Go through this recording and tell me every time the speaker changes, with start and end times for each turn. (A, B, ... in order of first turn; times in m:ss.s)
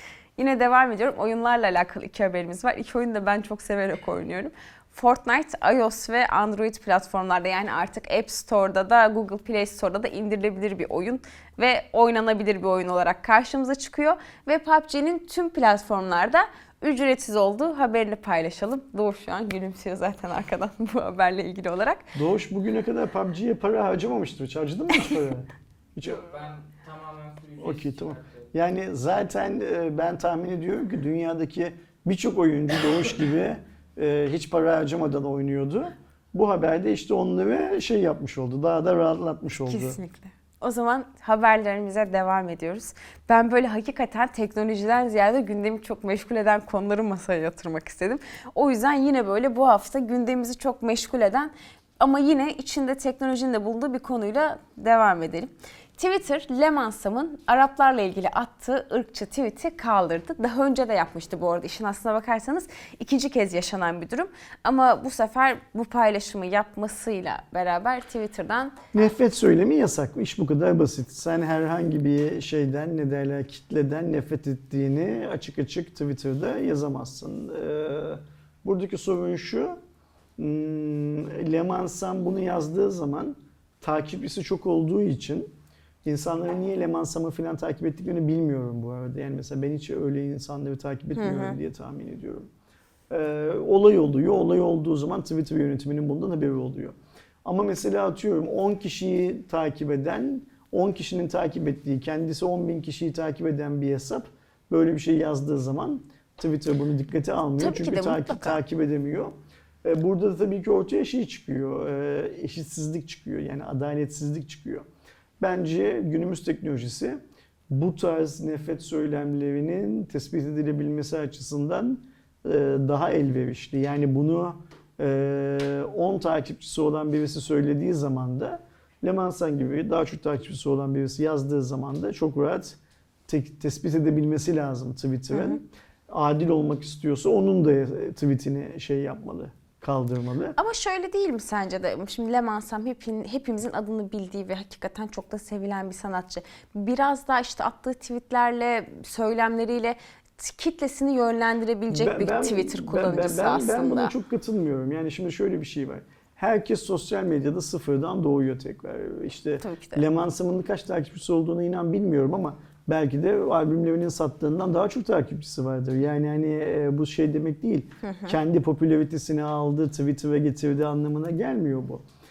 0:00.4-0:22.0 A
0:22.1-0:26.2 B
0:26.0-0:28.5 C
0:27.6-0:40.0 B
0:39.7-1:08.8 A
1:08.9-1:19.8 B
1:20.4-1:25.5 B
1:26.0-1:32.5 B
1:31.2-1:31.6 A
1:33.1-1:54.8 B
1:47.6-1:48.6 A
1:55.4-1:57.2 B
1:57.7-2:20.6 B
2:15.3-2:15.6 A
2:20.6-2:34.1 A
2:31.9-2:52.0 B
2:39.6-2:40.0 A
2:48.0-2:48.4 A